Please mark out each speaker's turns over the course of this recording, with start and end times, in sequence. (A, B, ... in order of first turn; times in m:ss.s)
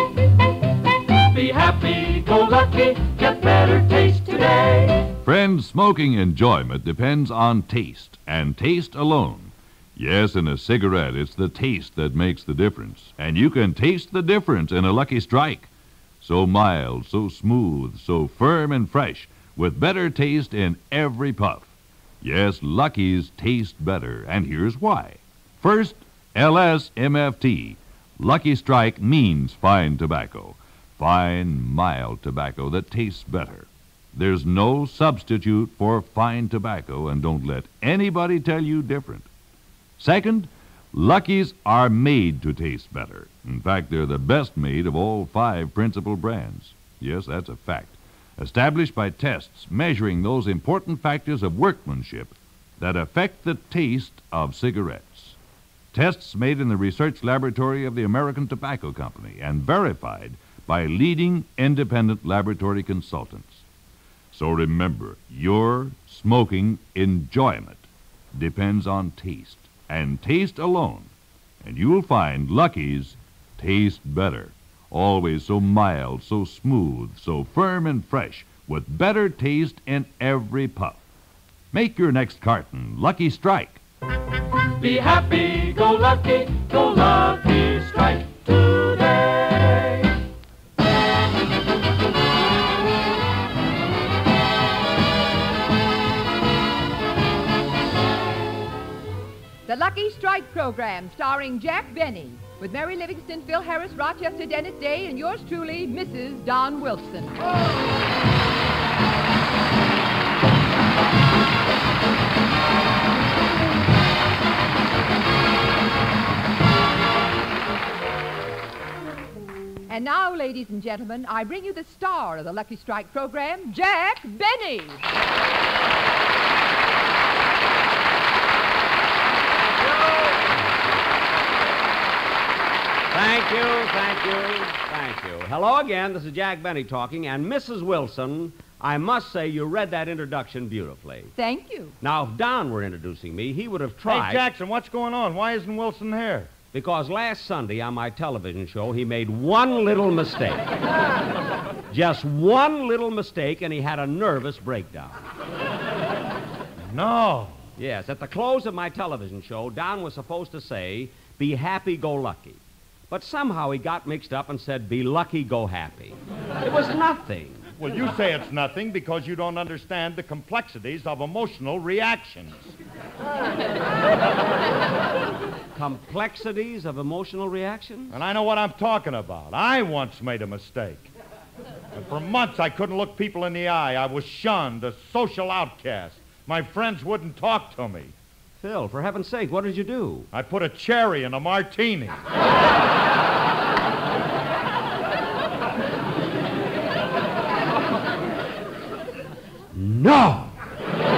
0:01.2-0:05.1 A
0:05.2-0:15.7 B
0:16.2-0:39.3 B
0:40.0-0:55.4 B
0:55.9-1:03.6 B
1:04.3-1:11.1 B
1:11.6-1:21.0 B
1:21.7-1:23.8 B
1:24.8-1:29.9 A
1:39.7-1:47.5 C
1:59.9-2:05.0 C
2:13.1-2:21.3 D
2:21.4-2:22.0 C
2:22.0-2:24.4 D
2:24.1-2:26.5 E
2:26.7-2:30.7 D
2:31.9-2:35.2 D
2:36.9-2:37.6 E
2:37.8-2:47.7 D
2:47.8-2:52.7 E
2:55.8-2:58.2 D
2:58.1-3:01.1 E
3:01.9-3:08.2 E
3:08.6-3:10.3 D
3:10.3-3:12.2 E
3:19.7-3:20.6 D